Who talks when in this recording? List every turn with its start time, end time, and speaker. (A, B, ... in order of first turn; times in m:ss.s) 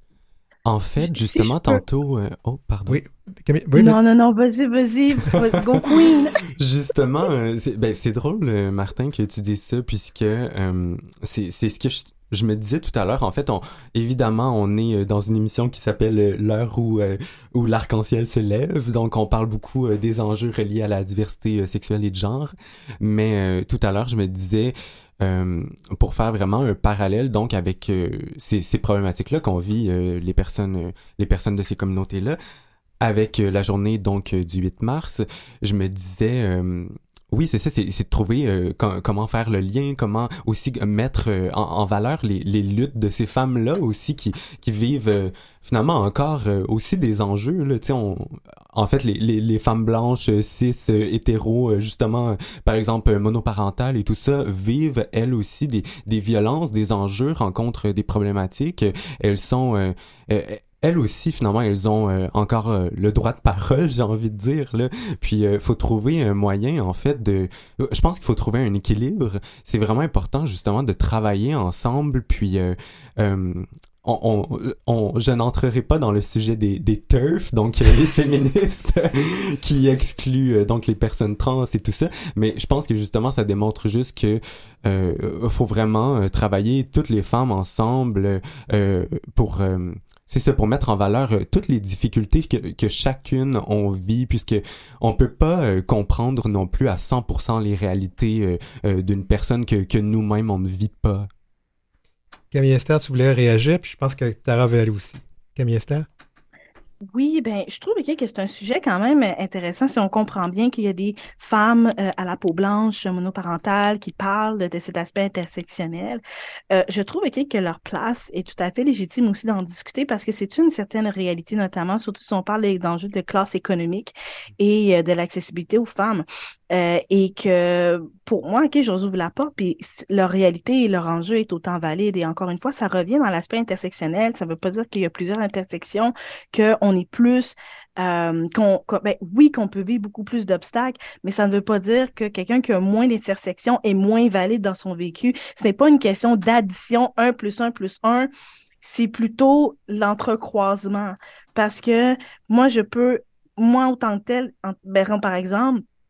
0:00.6-0:03.0 A
0:01.3-0:01.8 B
0:02.9-0:04.0 C
0:03.8-0:06.5 B
0:06.4-0:32.4 A
0:33.0-1:41.3 A
1:42.5-1:46.1 C
1:47.1-2:28.3 B
2:28.8-2:35.8 B